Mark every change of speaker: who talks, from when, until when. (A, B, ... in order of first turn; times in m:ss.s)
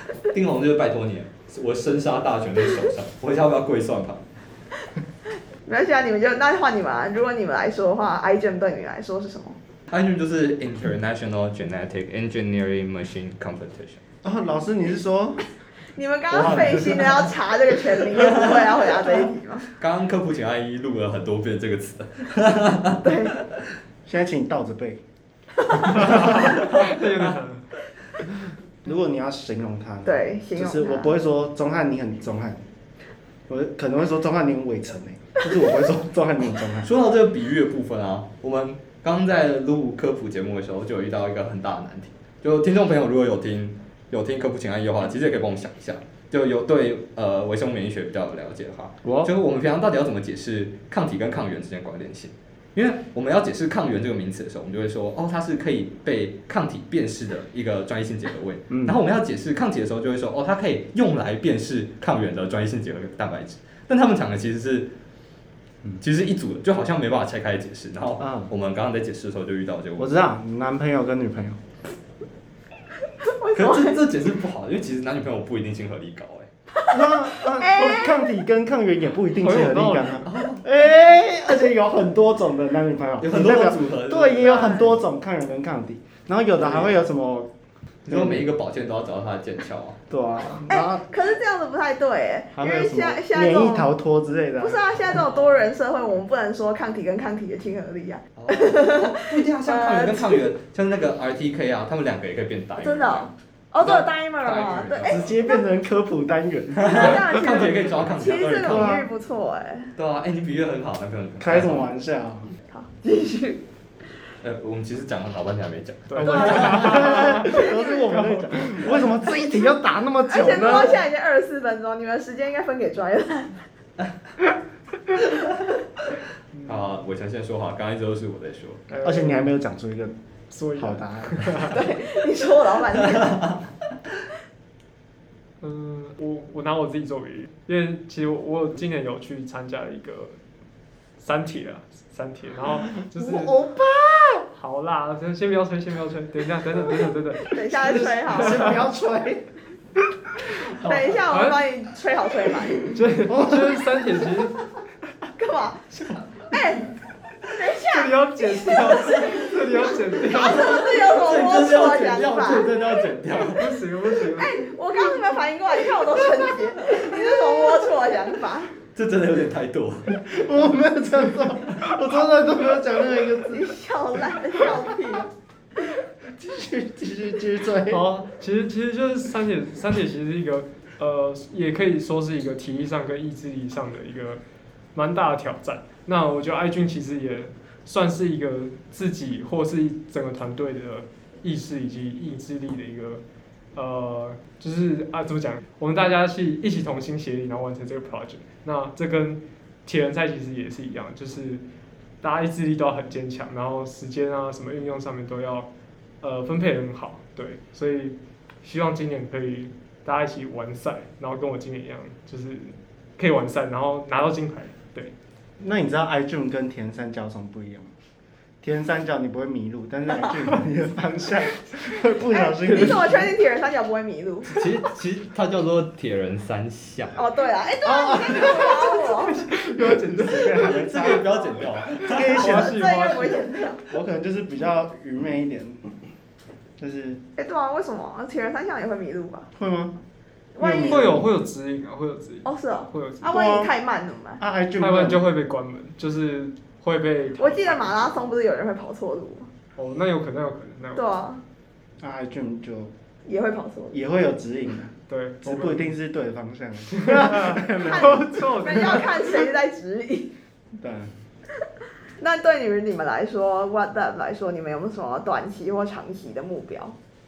0:00.2-0:04.2 A
0:05.6-0:09.6 B
0:09.9-0:14.0 A
0:14.2-0:15.4 C
0:15.9-0:19.7 B
0:16.3-0:17.3 C
0:18.4-0:18.8 A
0:19.8-0:23.5 A
0:23.0-0:23.4 B
0:24.1-0:25.0 C
0:25.9-0:26.5 C
0:26.0-0:27.7 D
0:26.4-0:27.0 A
0:28.8-0:32.6 C
0:30.0-0:31.2 B
0:33.5-0:36.9 C
0:36.8-1:04.9 A
0:49.0-0:49.3 C
0:58.7-0:59.0 C
1:06.0-1:10.2 A
1:08.2-1:08.5 C
1:10.0-1:11.6 C
1:13.2-1:14.0 B
1:13.5-1:16.5 A
1:16.8-1:18.3 B
1:16.9-1:27.5 C
1:19.4-1:20.3 D
1:20.2-1:20.7 A
1:23.2-1:24.9 A
1:24.4-1:24.8 B
1:26.6-1:27.0 A
1:28.1-1:30.0 A
1:28.1-1:28.5 C
1:30.1-1:31.1 C
1:30.7-1:33.9 B
1:32.6-1:34.8 C
1:34.6-1:40.5 B
1:35.1-1:35.7 A
1:38.4-1:45.3 A
1:42.8-1:45.6 B
1:45.1-1:47.4 C
1:46.8-1:49.0 A
1:46.8-1:49.9 B
1:48.6-1:49.1 C
1:50.0-1:51.9 A
1:51.4-1:52.5 C
1:52.7-1:53.6 B
1:54.4-1:57.3 A
1:56.1-1:58.8 D
1:56.2-2:01.0 C
1:56.4-1:58.0 B
2:00.3-2:03.6 B
2:06.5-2:06.9 D
2:06.6-2:08.8 A
2:08.9-2:09.5 D
2:09.0-2:10.2 C
2:10.5-2:11.8 D
2:10.8-2:11.8 C
2:11.7-2:13.6 B
2:15.6-2:20.4 D
2:21.2-2:23.6 D
2:23.1-2:24.5 C
2:24.6-2:28.8 D
2:27.4-2:28.8 B
2:28.3-2:29.5 C
2:30.7-2:31.6 D
2:30.7-2:33.0 B
2:32.9-2:34.6 D
2:33.2-2:33.9 C
2:35.4-2:35.9 B
2:36.5-2:37.0 B
2:37.5-2:42.7 B
2:37.8-2:40.8 D
2:40.4-2:43.8 A
2:43.6-2:44.7 D
2:44.4-2:48.7 B
2:48.9-2:50.2 A
2:50.1-2:53.8 C
2:53.5-2:55.3 B
2:56.2-2:58.1 C
2:57.9-3:04.4 D
3:04.9-3:13.2 D
3:13.7-3:21.6 D
3:22.2-3:25.7 D
3:26.2-3:35.1 D
3:35.6-3:37.9 C
3:38.6-3:43.3 C
3:42.3-3:44.5 B
3:42.7-3:43.0 D
3:44.5-3:47.2 A
3:47.2-3:49.4 B
3:47.8-3:53.0 C
3:49.4-3:51.1 D
3:50.5-3:52.4 A
3:52.0-3:53.5 D
3:52.3-3:53.8 B
3:53.9-3:55.9 C
3:56.8-3:57.2 C
3:57.4-3:59.5 B
3:59.6-4:00.0 C
4:00.6-4:01.1 B
4:00.6-4:01.3 C
4:00.8-4:03.3 D
4:02.4-4:04.4 B
4:03.2-4:03.7 C
4:04.4-4:05.3 C
4:04.8-4:08.2 D
4:07.4-4:09.5 B
4:09.8-4:11.1 D
4:11.0-4:11.4 B
4:12.0-4:12.9 C
4:13.3-4:14.0 B
4:13.9-4:19.0 C
4:15.1-4:15.9 D
4:16.9-4:19.2 D
4:17.8-4:20.3 B
4:20.8-4:21.1 C
4:22.2-4:27.0 B